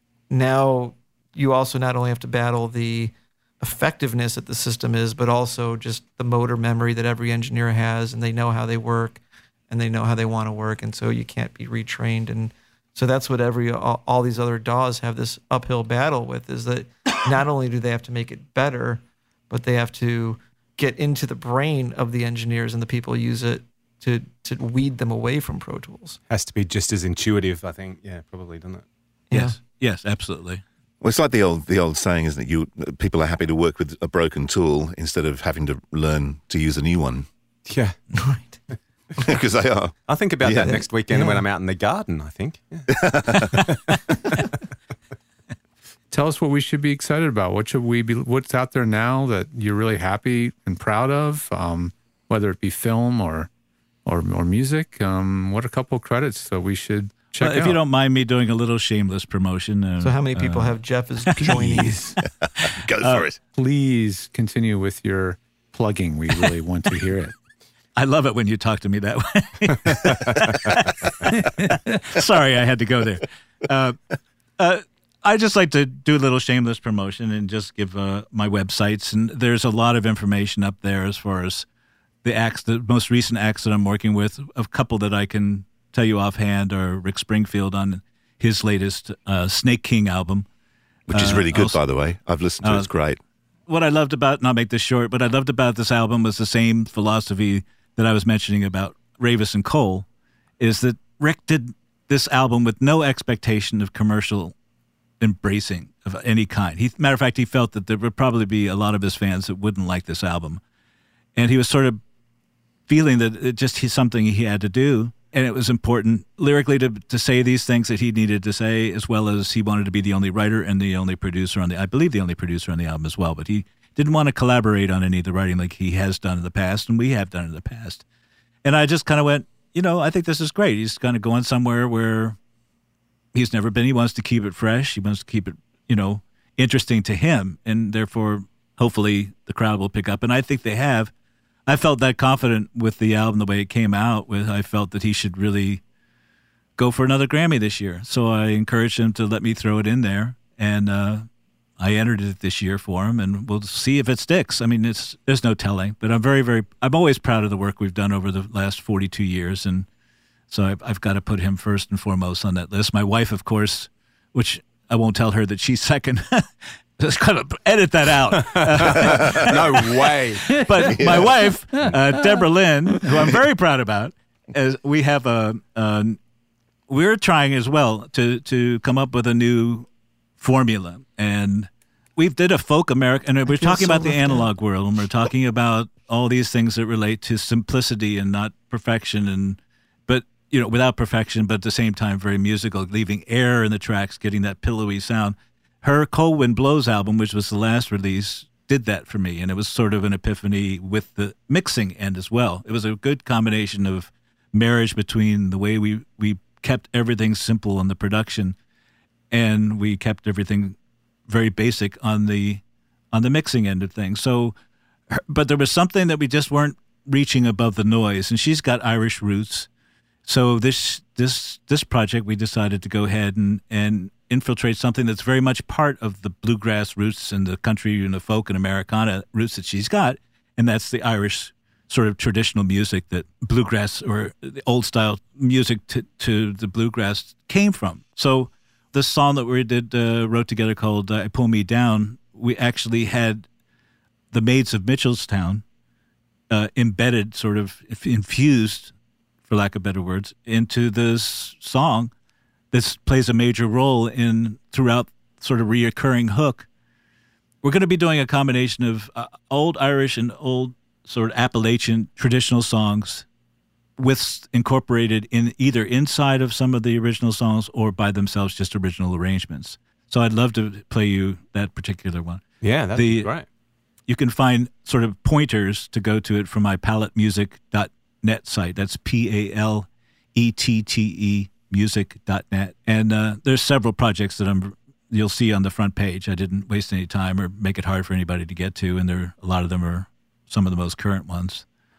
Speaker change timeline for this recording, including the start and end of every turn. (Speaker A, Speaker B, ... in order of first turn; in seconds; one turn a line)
Speaker A: 0.3-26.2
Speaker B: 26.3-28.8
Speaker A: 29.3-29.6
Speaker C: 29.3-30.6
Speaker D: 31.0-37.3
Speaker B: 37.7-38.0
Speaker A: 38.2-38.6
Speaker D: 39.2-40.7
Speaker B: 40.1-42.9
Speaker A: 40.6-41.4
Speaker D: 42.9-43.6
Speaker B: 43.5-44.0
Speaker E: 46.1-53.5
Speaker E: 54.0-57.8
Speaker C: 57.4-61.9
Speaker A: 60.0-62.1
Speaker E: 61.5-62.1
Speaker D: 62.2-63.4
Speaker C: 62.6-63.2
Speaker E: 63.5-67.3
Speaker C: 68.0-74.0
Speaker E: 71.3-72.0
Speaker C: 74.6-81.7
Speaker C: 82.2-90.5
Speaker D: 91.1-93.2
Speaker C: 91.1-91.8
Speaker C: 92.6-92.9
Speaker C: 93.7-100.0
Speaker C: 100.6-104.5
Speaker C: 105.2-110.6
Speaker C: 111.3-112.0
Speaker C: 112.9-128.0
Speaker C: 128.6-132.4
Speaker C: 133.3-141.1
Speaker C: 141.7-145.8
Speaker C: 146.8-151.3
Speaker C: 151.8-159.9
Speaker C: 160.5-169.9
Speaker B: 168.3-170.6
Speaker D: 169.0-169.4
Speaker C: 170.5-176.2
Speaker D: 170.9-171.3
Speaker C: 176.9-179.9
Speaker C: 180.4-208.6
Speaker A: 183.5-184.5
Speaker C: 209.3-210.8
Speaker C: 211.3-214.5
Speaker C: 215.1-219.7
Speaker C: 220.2-243.4
Speaker C: 244.3-245.6
Speaker C: 246.5-248.9
Speaker C: 249.5-252.1
Speaker C: 252.7-256.7
Speaker C: 257.6-263.2
Speaker C: 264.0-273.3
Speaker B: 272.6-273.4
Speaker C: 274.1-291.6